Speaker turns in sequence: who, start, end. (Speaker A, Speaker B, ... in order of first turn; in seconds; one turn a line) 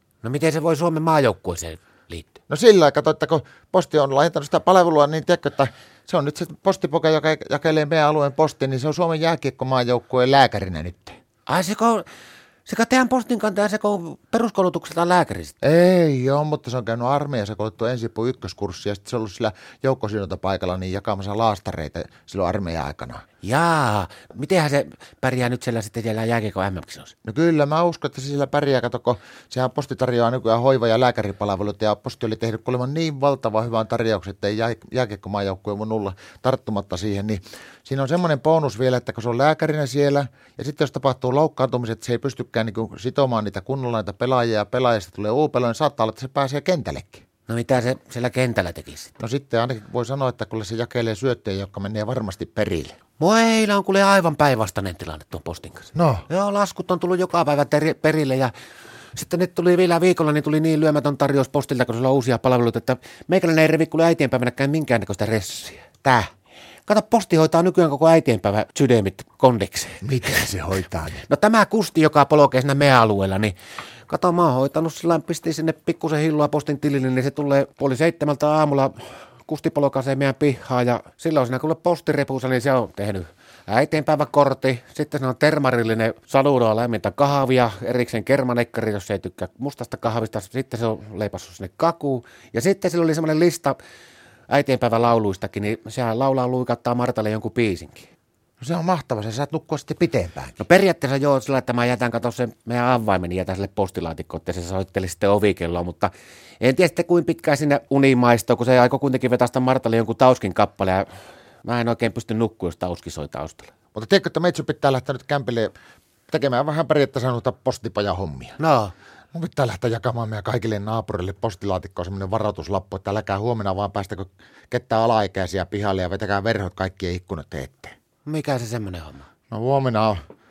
Speaker A: 0.2-2.4
Speaker B: 2.5-11.2
Speaker A: 11.5-12.1
Speaker A: 12.7-15.6
Speaker B: 15.6-23.2
Speaker A: 23.4-27.1
Speaker B: 27.2-47.2
Speaker A: 47.5-49.1
Speaker B: 49.2-53.0
Speaker A: 53.2-58.5
Speaker B: 56.0-56.3
Speaker A: 59.1-66.3
Speaker A: 66.9-70.0
Speaker B: 70.0-71.2
Speaker A: 71.2-73.6
Speaker A: 74.1-93.8
Speaker A: 94.5-98.1
Speaker B: 98.6-100.6
Speaker A: 100.6-111.1
Speaker A: 111.6-113.7
Speaker B: 113.9-115.7
Speaker B: 116.3-118.6
Speaker A: 118.6-118.9
Speaker B: 119.3-128.0
Speaker A: 128.2-129.3
Speaker B: 129.5-130.2